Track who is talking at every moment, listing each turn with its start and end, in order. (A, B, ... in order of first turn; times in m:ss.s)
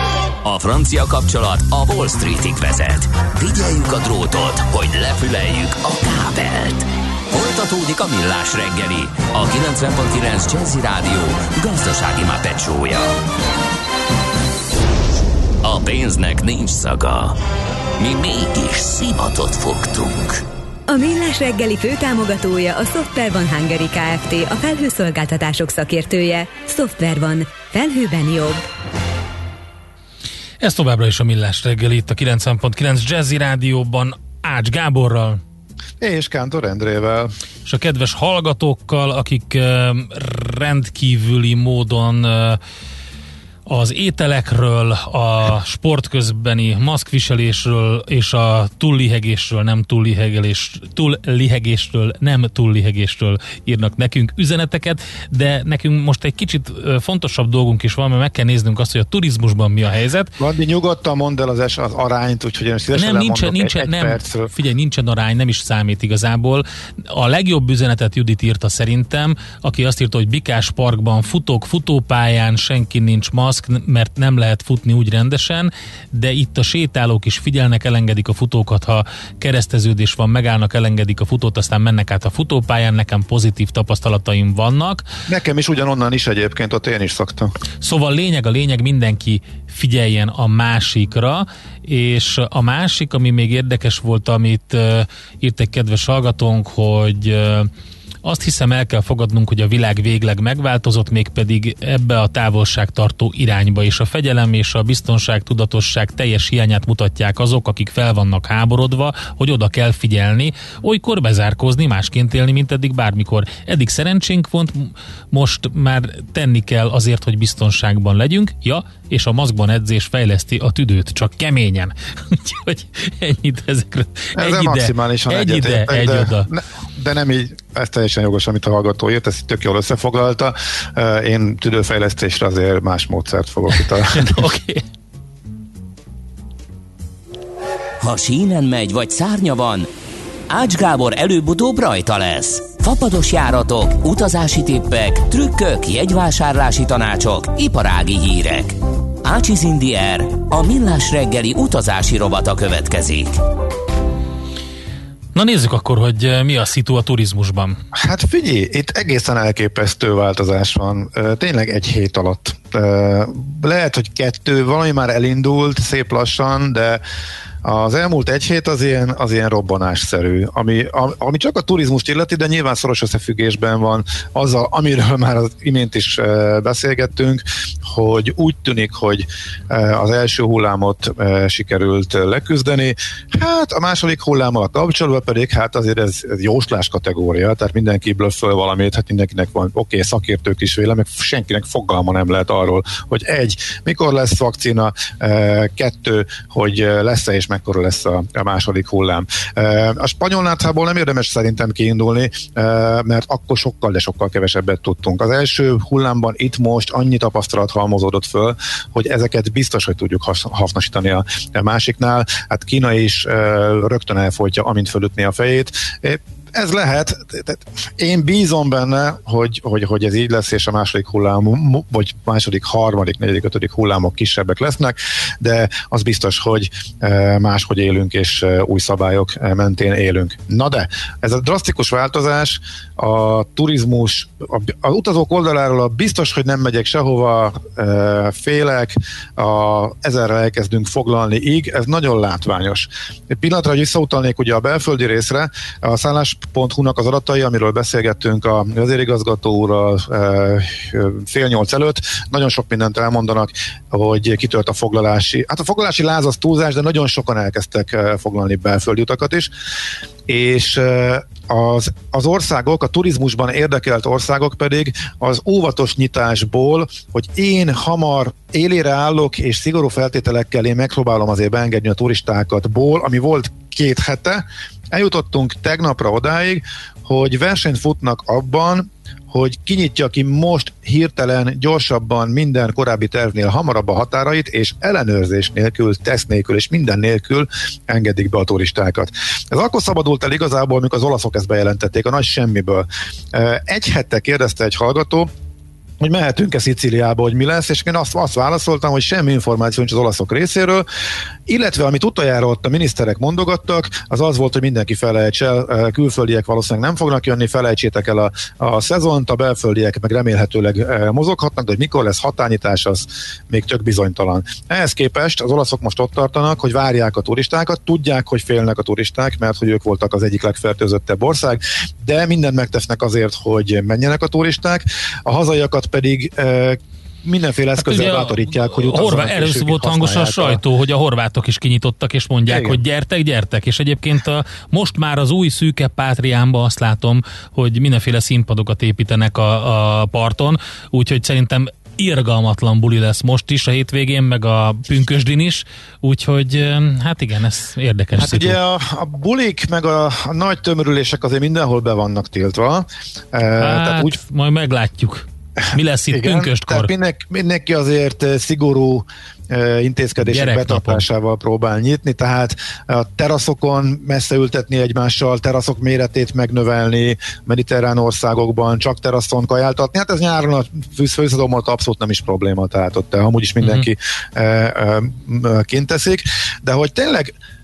0:00.4-0:13.1 A
0:15.6-0:17.4 A
0:18.0-0:20.4 A
0:20.9-0:28.6 B
0:30.6-0:35.4 C
0:36.0-0:37.3 D
0:37.7-0:42.6 C
0:43.7-1:00.3 C
1:00.4-1:04.5 D
1:03.0-1:25.0 C
1:25.3-1:27.5 D
1:27.8-1:37.7 C
1:38.2-2:06.5 C
2:04.4-2:14.4 D
2:14.1-2:14.8 C
2:18.0-2:19.9 A
2:20.5-2:33.4 A
2:35.3-2:37.8 C
2:37.9-2:47.0 D
2:47.6-4:19.5 D
4:20.3-4:55.3 D
4:56.0-5:00.9 D
5:01.5-5:30.6 D
5:27.8-5:48.6 C
5:32.5-5:32.8 D
5:48.2-5:54.2 D
5:53.6-5:56.9 C
5:55.7-6:17.3 D
6:00.2-6:01.0 C
6:13.6-6:13.9 C